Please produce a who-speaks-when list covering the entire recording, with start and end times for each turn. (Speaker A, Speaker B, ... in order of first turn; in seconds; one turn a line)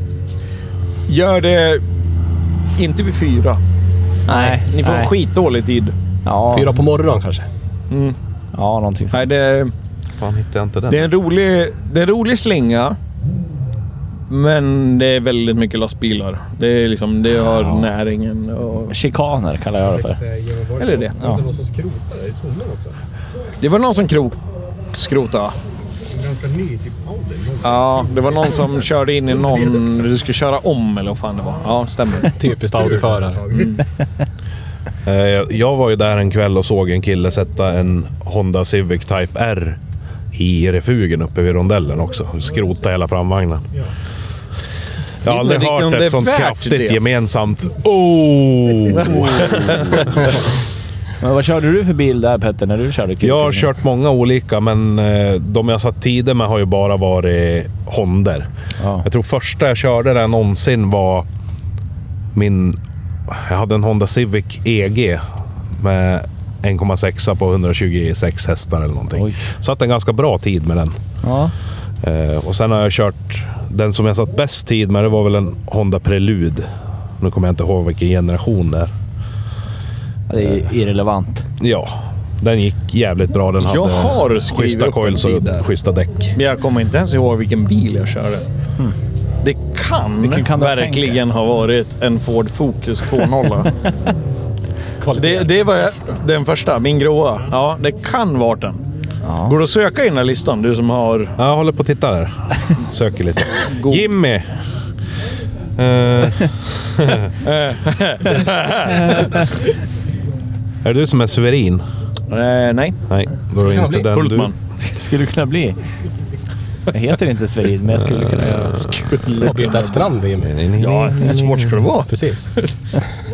Speaker A: 1.1-1.8
Speaker A: 2.7-3.6
Speaker B: 4.3-5.1
Speaker A: 4.3-5.9
Speaker B: 6.2-6.8
Speaker C: 6.5-7.5
Speaker A: 7.9-8.2
Speaker B: 8.5-9.3
Speaker A: 9.1-9.7
Speaker D: 10.2-11.1
Speaker A: 10.9-13.0
Speaker A: 14.3-18.9
Speaker B: 17.4-17.9
Speaker B: 18.9-20.2
Speaker E: 19.8-23.0
Speaker A: 20.8-21.1
Speaker A: 23.6-24.4
Speaker A: 24.9-25.5
Speaker E: 26.1-29.8
Speaker A: 27.6-32.4
Speaker C: 32.4-33.5
Speaker E: 32.6-33.8
Speaker A: 33.5-33.8
Speaker D: 35.0-39.8
Speaker D: 40.3-43.6
Speaker D: 45.2-50.1
Speaker A: 45.2-47.0
Speaker B: 51.2-53.7
Speaker D: 53.2-58.5
Speaker B: 58.8-59.0
Speaker D: 59.0-61.2
Speaker D: 62.3-62.8
Speaker D: 63.3-65.2
Speaker D: 65.7-71.0
Speaker B: 71.2-71.5
Speaker D: 72.0-76.7
Speaker D: 77.2-78.9
Speaker B: 80.3-81.5
Speaker D: 81.6-86.3
Speaker A: 83.6-85.7
Speaker A: 86.3-88.4
Speaker A: 89.4-93.7
Speaker B: 90.2-91.2
Speaker C: 95.0-95.5
Speaker A: 95.1-98.8
Speaker B: 99.2-99.5
Speaker A: 99.4-101.4
Speaker D: 101.4-104.5
Speaker A: 103.6-104.1
Speaker D: 105.8-107.3
Speaker A: 107.4-109.3
Speaker D: 110.8-111.8
Speaker A: 112.3-113.0
Speaker D: 113.1-114.5
Speaker C: 113.6-114.1
Speaker A: 113.9-114.5
Speaker B: 114.8-115.8
Speaker B: 116.9-118.9
Speaker D: 118.0-119.2
Speaker A: 119.2-120.0
Speaker C: 119.4-120.5
Speaker D: 120.4-121.4
Speaker A: 120.8-122.7
Speaker C: 122.0-122.5